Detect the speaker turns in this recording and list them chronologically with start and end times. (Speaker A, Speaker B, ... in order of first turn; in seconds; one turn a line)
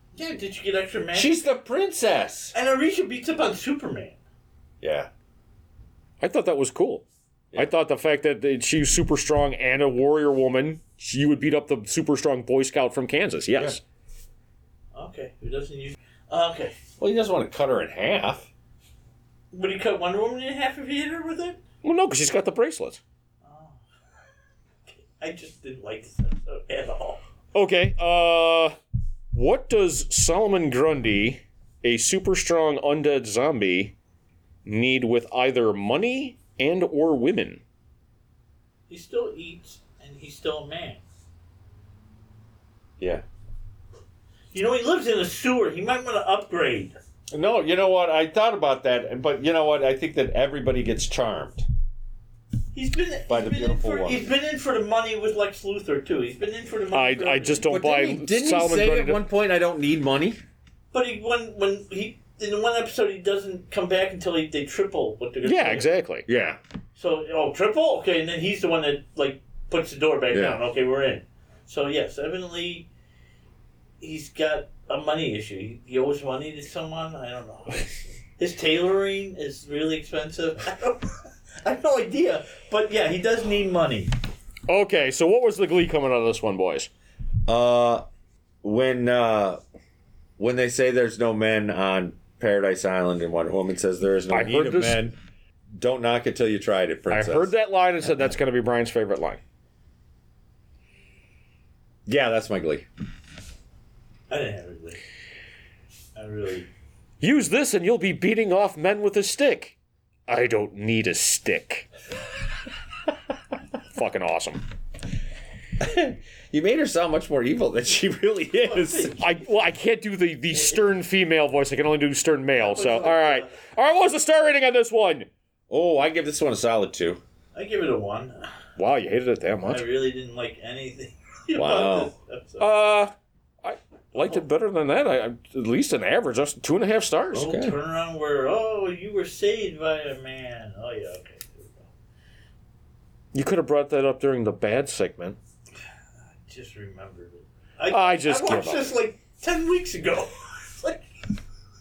Speaker A: 0.1-1.4
Speaker B: 1.1-2.5
Speaker A: 2.5-4.2
Speaker B: 4.8-5.1
Speaker C: 6.2-13.8
Speaker B: 13.5-13.8
Speaker A: 14.9-16.7
Speaker B: 17.0-18.5
Speaker A: 19.5-21.6
Speaker C: 21.8-23.0
Speaker A: 23.4-23.8
Speaker A: 24.9-27.2
Speaker C: 27.5-28.7
Speaker C: 29.3-33.9
Speaker C: 34.6-37.6
Speaker A: 38.9-41.0
Speaker A: 44.5-46.9
Speaker B: 47.3-51.6
Speaker A: 52.7-57.6
Speaker B: 53.3-54.2
Speaker C: 56.9-59.2
Speaker B: 57.6-60.4
Speaker A: 60.9-65.9
Speaker C: 65.4-66.2
Speaker B: 66.3-66.6
Speaker A: 66.9-72.9
Speaker B: 70.3-70.6
Speaker A: 74.0-84.1
Speaker C: 84.7-86.9
Speaker B: 87.5-88.0
Speaker B: 88.6-89.6
Speaker B: 90.4-95.2
Speaker C: 94.3-95.0
Speaker B: 95.8-97.5
Speaker C: 97.1-99.4
Speaker B: 102.0-102.8
Speaker A: 104.3-105.0
Speaker A: 106.1-106.7
Speaker C: 107.2-109.8
Speaker C: 110.3-111.9
Speaker C: 113.9-114.6
Speaker B: 115.8-119.1
Speaker A: 118.6-119.4
Speaker C: 119.2-125.3
Speaker A: 120.5-120.9
Speaker A: 122.6-123.6
Speaker B: 125.7-127.2
Speaker A: 127.5-128.5
Speaker C: 128.8-129.8
Speaker A: 129.6-132.7
Speaker B: 131.5-132.1
Speaker C: 132.6-137.5
Speaker B: 137.3-137.8
Speaker A: 137.3-141.9
Speaker C: 143.3-145.4
Speaker A: 146.3-151.1
Speaker C: 147.9-148.9